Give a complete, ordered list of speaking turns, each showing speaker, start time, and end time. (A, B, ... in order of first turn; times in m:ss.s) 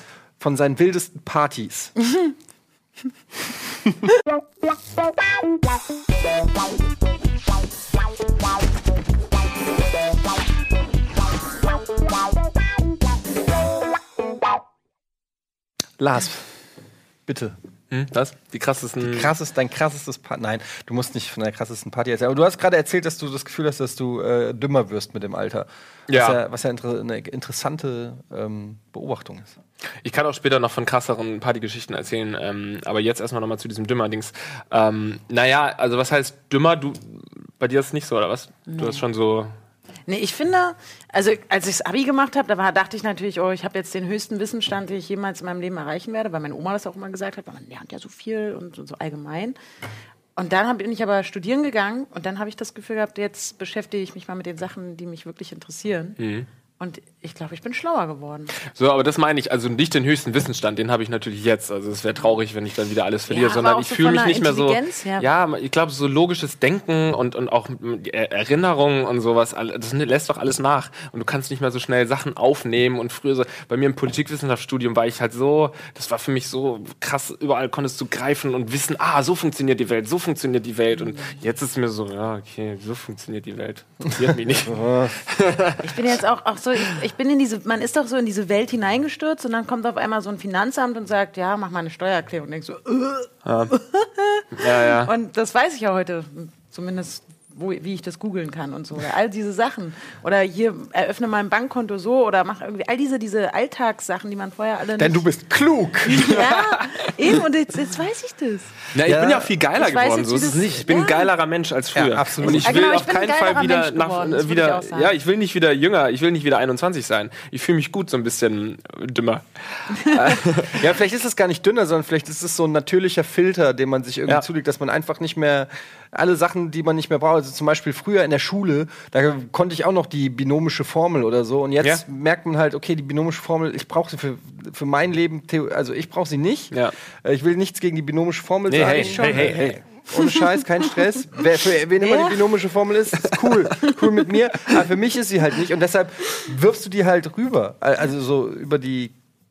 0:00.4-0:01.9 A
0:16.0-0:16.5 A
0:17.2-0:17.6 A
0:17.9-0:19.3 B
0:19.0-0:29.6 A
0:26.1-0:26.4 B
0:30.0-0:39.5 B
0:38.7-0:39.0 C
0:40.1-0:49.6 C
0:50.4-0:56.2 C
0:56.2-0:56.5 B
0:56.8-0:58.5 C
0:58.7-1:26.0 B
1:03.3-1:05.3 C
1:21.0-1:21.4 C
1:24.2-1:25.2 A
1:25.8-1:45.2 C
1:33.4-1:33.7 B
1:34.6-1:35.1 B
1:45.0-1:46.4 A
1:46.0-1:48.8 C
1:48.9-1:49.5 A
1:48.9-2:00.8 B
1:49.7-1:51.3 C
1:51.9-1:52.9 A
1:52.5-1:55.1 C
2:00.6-2:29.1 A
2:18.7-2:19.7 B
2:19.0-2:19.5 C
2:20.1-2:20.6 C
2:22.0-2:22.5 C
2:23.2-2:23.5 B